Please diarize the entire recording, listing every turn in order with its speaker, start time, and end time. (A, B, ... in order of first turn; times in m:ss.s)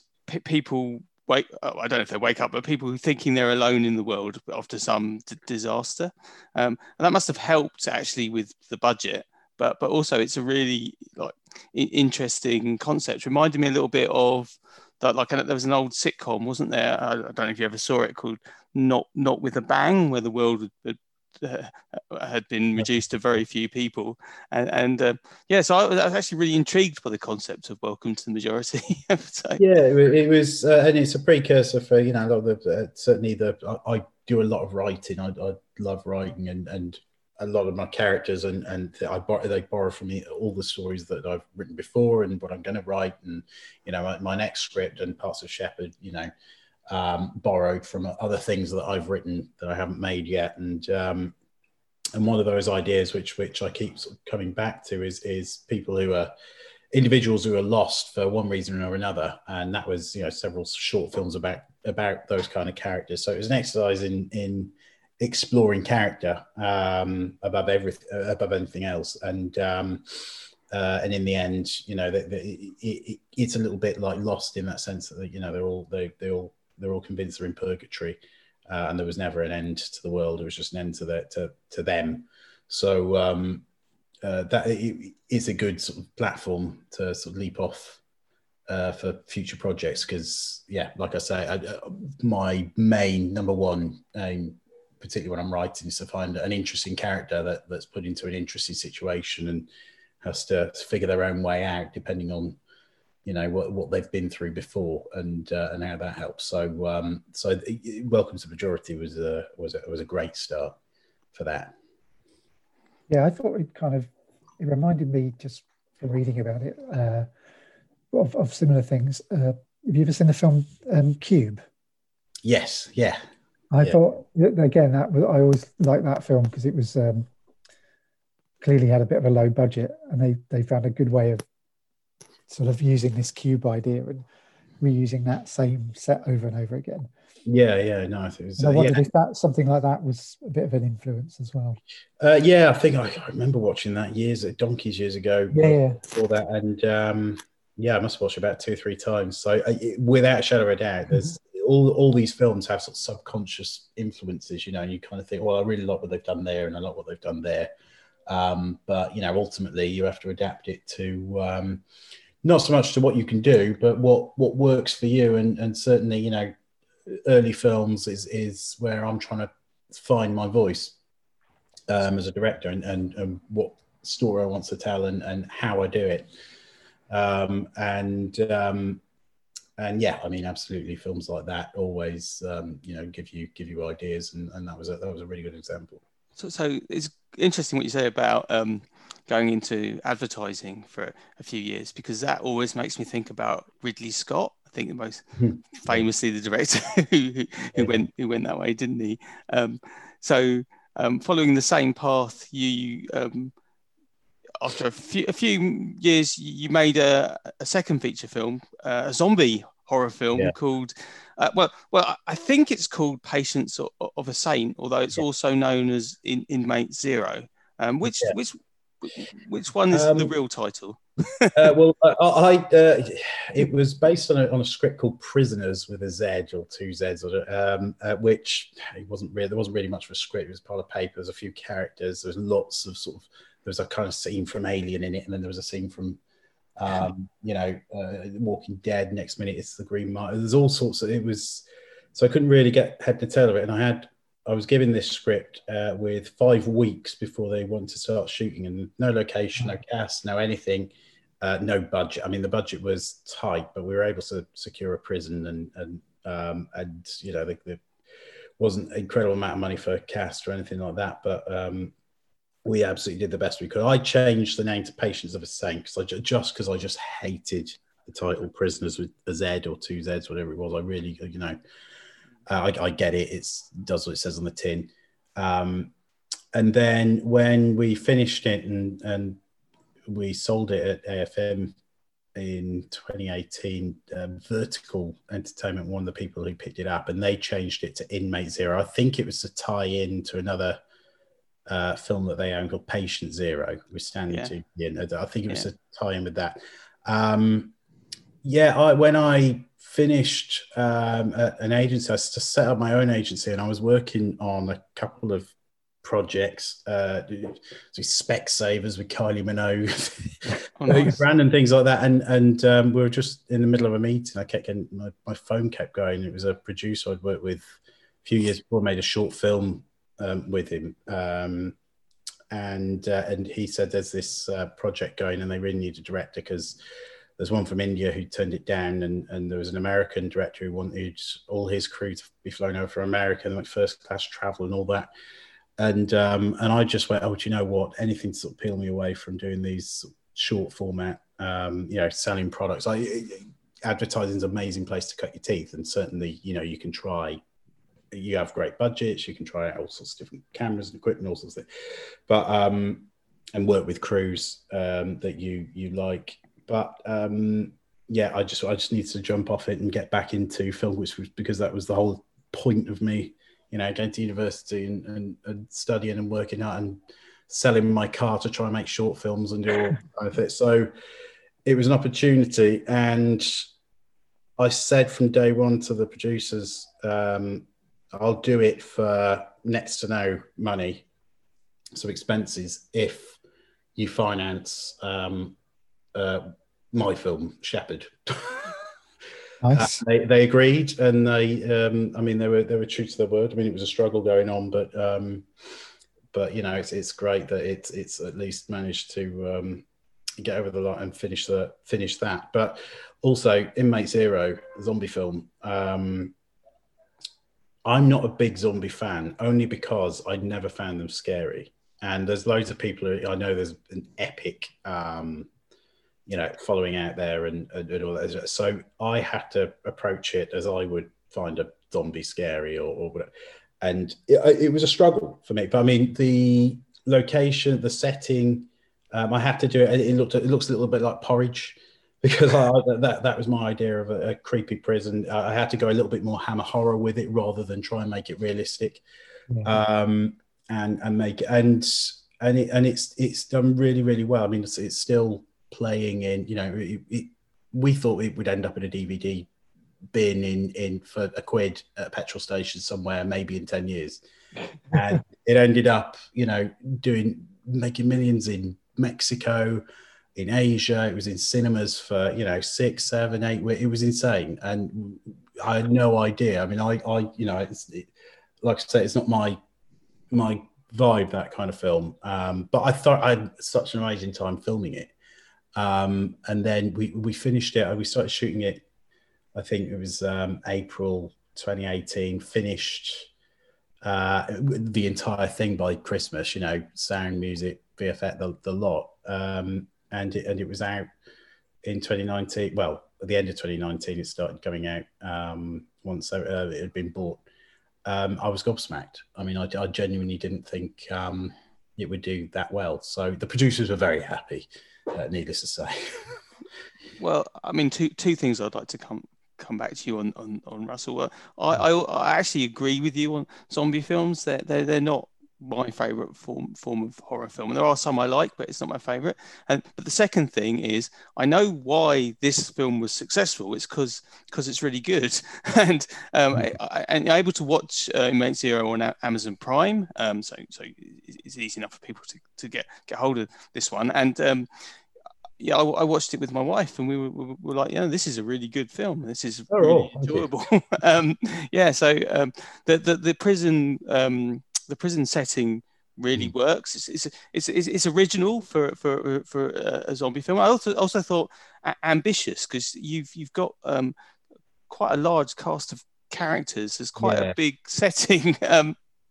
0:00.2-0:29.6 A
0:29.6-0:46.3 B
0:46.9-0:51.3 B
0:52.1-0:56.3 B
0:56.9-1:23.6 B
1:24.2-1:28.0 B
1:28.7-1:39.7 B
1:40.2-1:42.6 B
1:43.2-1:50.7 B
1:51.3-1:51.7 B
1:53.1-1:57.3 C
1:58.1-2:01.6 C
2:02.4-2:03.2 B
2:03.7-2:07.3 C
2:08.6-2:11.4 C
2:12.5-2:14.2 C
2:14.8-2:17.1 C
2:17.4-2:19.0 B
2:18.6-2:21.8 C
2:22.2-2:37.7 B
2:25.5-2:26.0 C
2:38.3-2:41.8 B
2:42.4-2:46.5 B
2:47.0-2:50.9 B
2:51.9-2:56.3 B
2:57.1-2:59.0 B
2:59.8-3:06.0 B
3:06.4-3:15.2 A
3:15.4-3:16.0 B
3:15.8-3:23.5 A
3:17.7-3:18.0 B
3:24.6-3:41.6 A
3:38.0-3:38.4 B
3:39.9-3:40.3 B
3:41.5-3:56.2 B
3:56.8-4:17.8 B
4:18.6-4:21.9 B
4:22.6-4:31.6 B
4:32.5-4:35.9 B
4:36.5-4:39.4 B
4:40.0-4:41.8 B
4:42.3-4:50.8 B
4:51.7-4:57.7 B
4:58.4-5:21.8 B
5:10.8-5:11.2 A
5:22.5-5:26.8 B
5:27.4-5:35.1 B
5:35.8-5:47.4 B
5:48.1-5:51.6 B
5:52.3-6:10.9 B
6:11.6-6:13.7 B
6:14.6-6:21.0 B
6:21.9-6:23.4 B
6:24.0-6:25.6 B
6:26.1-6:28.8 B
6:29.6-6:30.0 C
6:29.7-6:35.5 B
6:36.3-6:39.8 B
6:40.4-6:46.3 B
6:47.8-6:55.5 B
6:56.3-7:03.3 B
7:03.8-7:19.0 B
7:19.6-7:29.5 B
7:30.1-7:34.2 B
7:34.9-7:39.8 B
7:40.3-7:48.1 B
7:48.6-7:49.6 B
7:50.3-7:55.1 B
7:55.8-7:58.8 B
7:59.5-8:03.3 B
8:04.0-8:11.1 B
8:11.8-8:17.4 B
8:18.0-8:26.4 B
8:27.2-8:54.7 A
8:55.6-9:14.1 A
8:59.7-9:00.5 B
9:14.9-9:18.9 A
9:17.2-9:17.6 B